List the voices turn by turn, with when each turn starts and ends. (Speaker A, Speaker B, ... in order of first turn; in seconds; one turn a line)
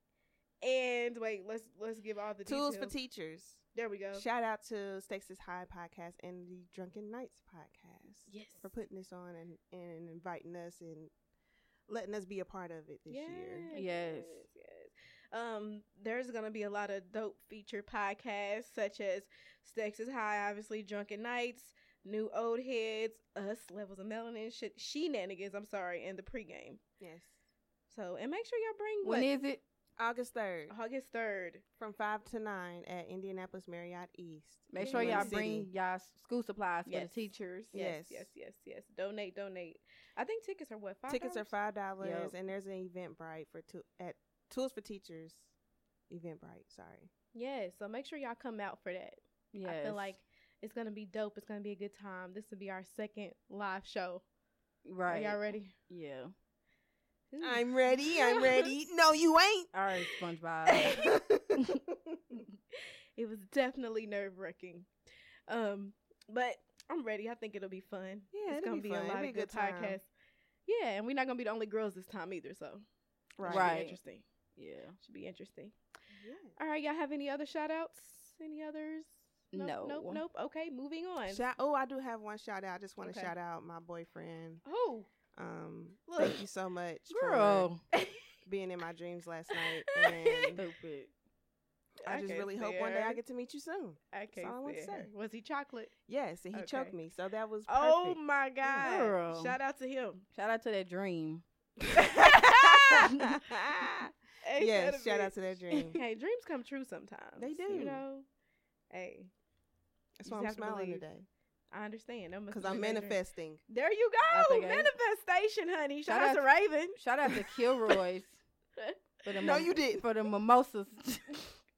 Speaker A: 0.6-2.9
Speaker B: 2.4-3.6
Speaker A: 3.7-4.2
Speaker B: 4.1-11.1
Speaker A: 8.3-8.7
Speaker B: 11.9-13.7
Speaker A: 13.1-26.8
Speaker C: 13.7-14.4
Speaker B: 27.0-27.3
Speaker A: 27.9-29.3
Speaker C: 29.0-29.6
Speaker B: 30.0-30.7
Speaker A: 30.7-31.6
Speaker B: 31.8-35.7
Speaker C: 34.7-37.7
Speaker A: 34.8-35.4
Speaker A: 36.9-41.5
Speaker B: 37.7-38.3
Speaker B: 41.1-45.5
Speaker C: 42.0-42.3
Speaker B: 46.1-47.1
Speaker A: 47.3-54.2
Speaker C: 49.5-50.1
Speaker C: 54.8-56.3
Speaker A: 55.1-55.7
Speaker A: 57.3-58.7
Speaker B: 57.4-59.7
Speaker C: 59.7-61.0
Speaker B: 60.8-62.2
Speaker A: 63.1-64.9
Speaker A: 65.5-70.1
Speaker B: 68.3-70.0
Speaker A: 70.7-72.8
Speaker B: 73.4-73.7
Speaker A: 73.4-74.2
Speaker C: 73.4-74.0
Speaker C: 74.5-75.0
Speaker A: 75.0-75.7
Speaker B: 76.1-76.5
Speaker A: 76.6-81.4
Speaker C: 79.5-80.2
Speaker B: 81.3-84.6
Speaker A: 83.0-83.3
Speaker A: 84.6-85.1
Speaker B: 85.3-87.7
Speaker A: 86.1-86.4
Speaker C: 87.1-87.8
Speaker B: 88.5-90.6
Speaker A: 89.5-90.6
Speaker C: 90.5-91.1
Speaker B: 92.0-95.1
Speaker A: 92.0-93.2
Speaker A: 94.1-95.9
Speaker B: 96.1-98.9
Speaker A: 96.5-96.9
Speaker A: 97.7-100.2
Speaker C: 98.8-99.6
Speaker C: 100.3-101.4
Speaker A: 102.0-103.0
Speaker B: 102.0-106.0
Speaker A: 104.4-108.2
Speaker B: 107.4-108.0
Speaker A: 108.9-109.3
Speaker B: 110.2-111.2
Speaker A: 110.2-111.0
Speaker A: 111.7-117.0
Speaker B: 112.5-113.6
Speaker C: 114.3-114.9
Speaker C: 116.1-118.4
Speaker C: 119.2-121.5
Speaker B: 119.4-120.0